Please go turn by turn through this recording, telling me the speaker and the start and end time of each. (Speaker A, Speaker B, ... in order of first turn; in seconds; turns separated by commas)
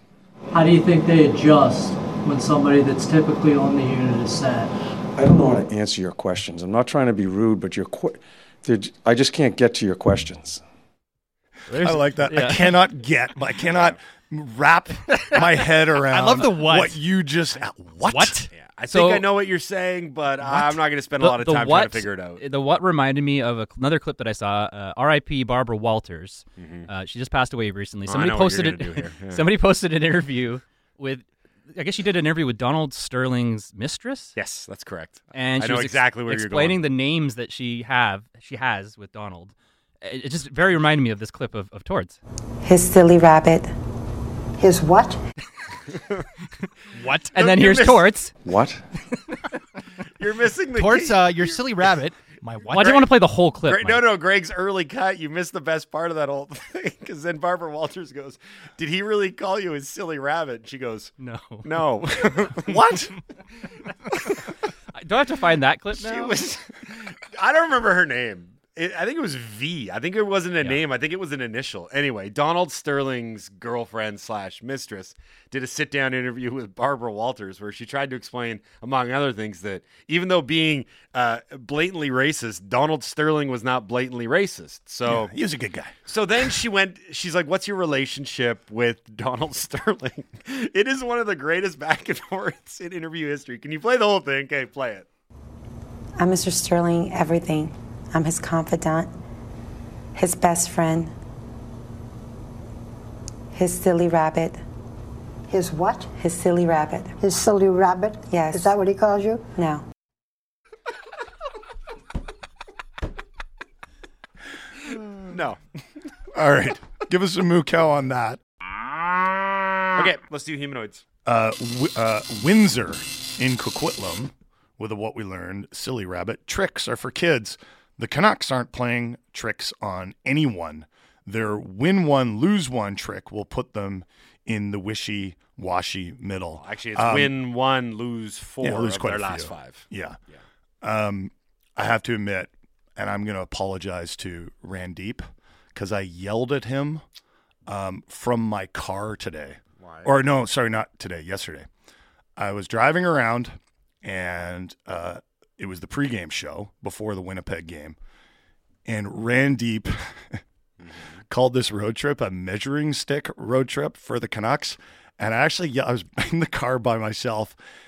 Speaker A: 0.5-4.7, Speaker B: 5.2-10.6, Speaker C: 11.7-12.8, Speaker D: 11.8-18.4, Speaker E: 13.7-14.0, Speaker F: 16.1-17.0, Speaker F: 18.1-18.5, Speaker E: 18.5-22.4, Speaker C: 18.9-19.3, Speaker C: 20.4-34.4, Speaker E: 26.6-26.9, Speaker E: 28.1-29.4, Speaker E: 34.4-36.8, Speaker C: 35.3-42.2, Speaker G: 42.6-43.7, Speaker H: 44.6-45.2, Speaker E: 45.9-46.2, Speaker F: 47.0-47.3, Speaker C: 47.3-48.3, Speaker E: 47.4-48.0, Speaker B: 48.4-48.8, Speaker E: 50.2-51.8, Speaker F: 50.8-53.0, Speaker C: 52.7-54.0, Speaker E: 53.7-62.8, Speaker C: 61.2-61.9, Speaker D: 62.6-63.2, Speaker C: 65.0-66.3, Speaker E: 65.9-85.3, Speaker D: 85.1-85.9, Speaker E: 86.1-95.1, Speaker G: 96.2-99.1, Speaker G: 100.2-101.1, Speaker G: 103.5-104.6, Speaker H: 105.5-106.2, Speaker G: 106.1-107.1, Speaker H: 107.2-109.6, Speaker G: 108.3-108.7, Speaker G: 109.5-109.8, Speaker E: 115.0-115.6, Speaker D: 116.3-118.4, Speaker E: 120.0-121.0, Speaker D: 121.2-137.3, Speaker E: 136.6-140.4, Speaker D: 138.6-140.2, Speaker D: 140.8-147.0, Speaker D: 147.7-151.7, Speaker E: 149.8-150.1, Speaker D: 152.4-158.0, Speaker D: 158.8-160.4, Speaker E: 160.8-161.2, Speaker D: 161.3-167.6